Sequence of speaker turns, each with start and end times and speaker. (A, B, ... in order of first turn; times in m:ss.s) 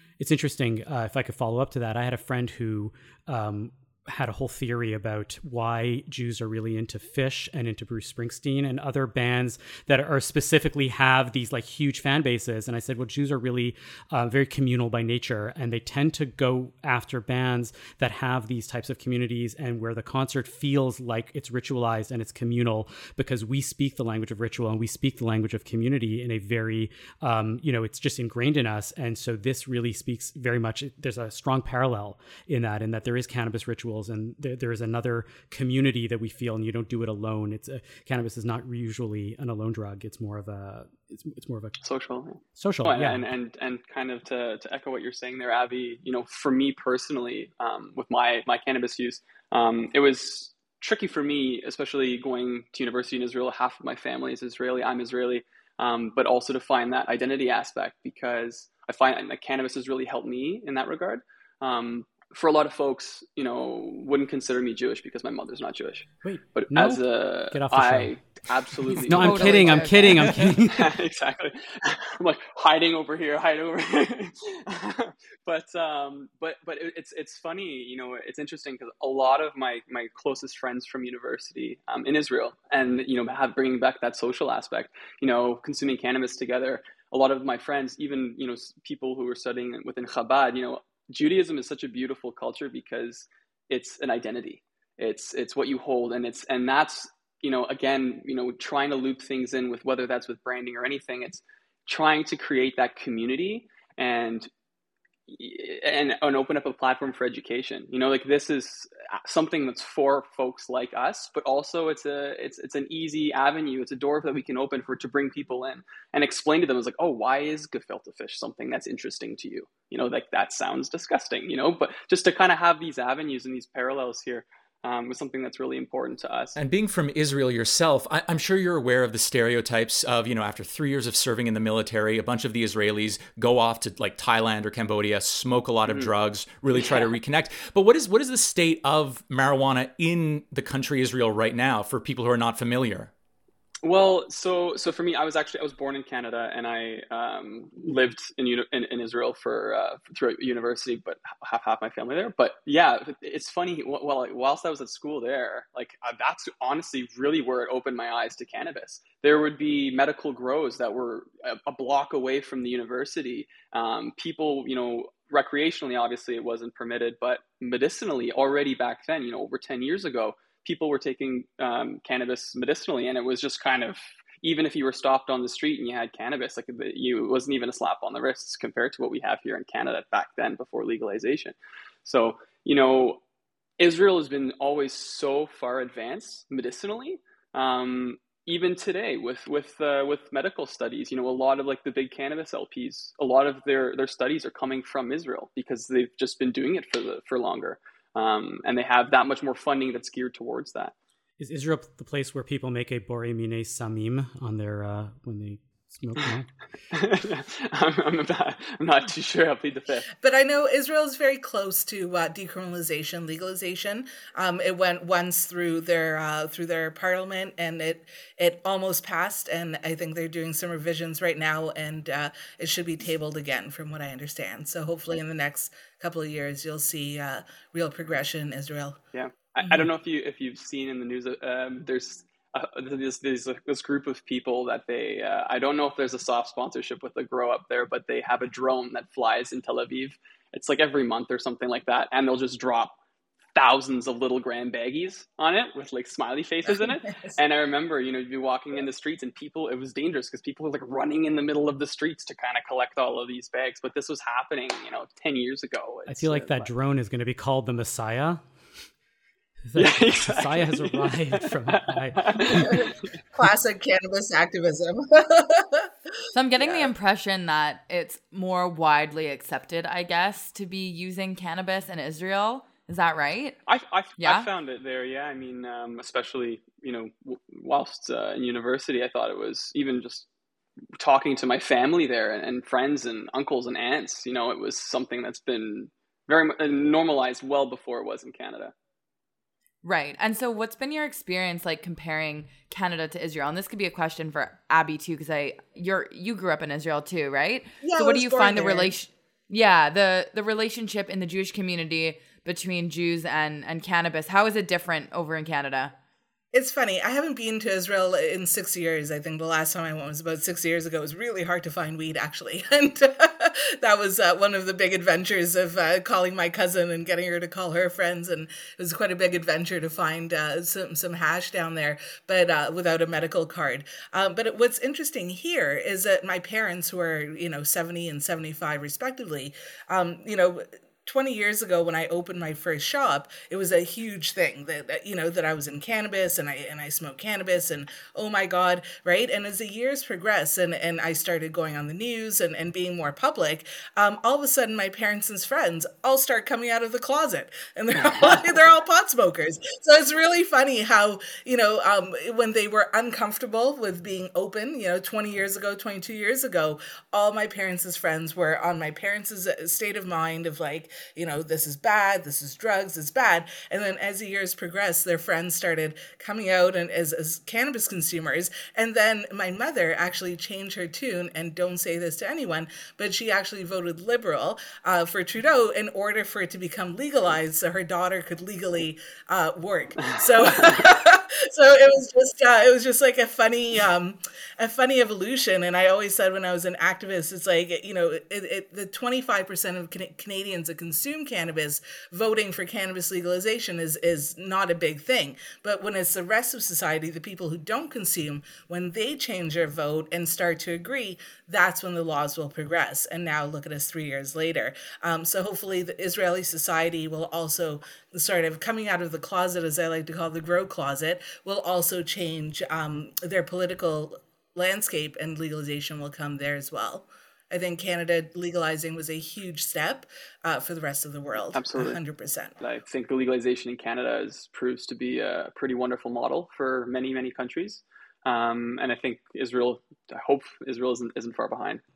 0:00.2-0:41.8 A
0:41.8-1:44.5 B
0:42.6-0:43.3 A
1:06.2-1:08.2 A
1:08.9-1:10.9 A
1:09.1-1:10.5 C
1:45.3-2:06.6 B
2:06.6-2:23.1 D
2:16.8-2:17.0 B
2:23.8-3:03.2 B
3:03.8-3:20.9 B
3:21.4-3:26.5 A
3:26.9-3:30.1 B
3:30.2-3:49.0 E
3:49.1-4:03.0 B
3:49.6-3:49.9 E
4:03.6-4:16.7 B
4:06.7-4:07.3 E
4:16.1-4:18.4 A
4:19.7-4:22.7 A
4:19.8-4:23.1 B
4:22.8-4:25.9 E
4:26.4-4:33.6 C
4:26.6-4:26.9 B
4:33.7-4:40.3 B
4:34.2-4:34.5 C
4:41.0-4:48.7 B
4:49.8-5:05.9 C
4:57.8-4:58.9 E
5:06.5-7:02.6 E
5:48.0-5:48.4 B
6:20.0-6:20.7 B
7:01.5-7:02.0 B
7:02.6-7:11.8 B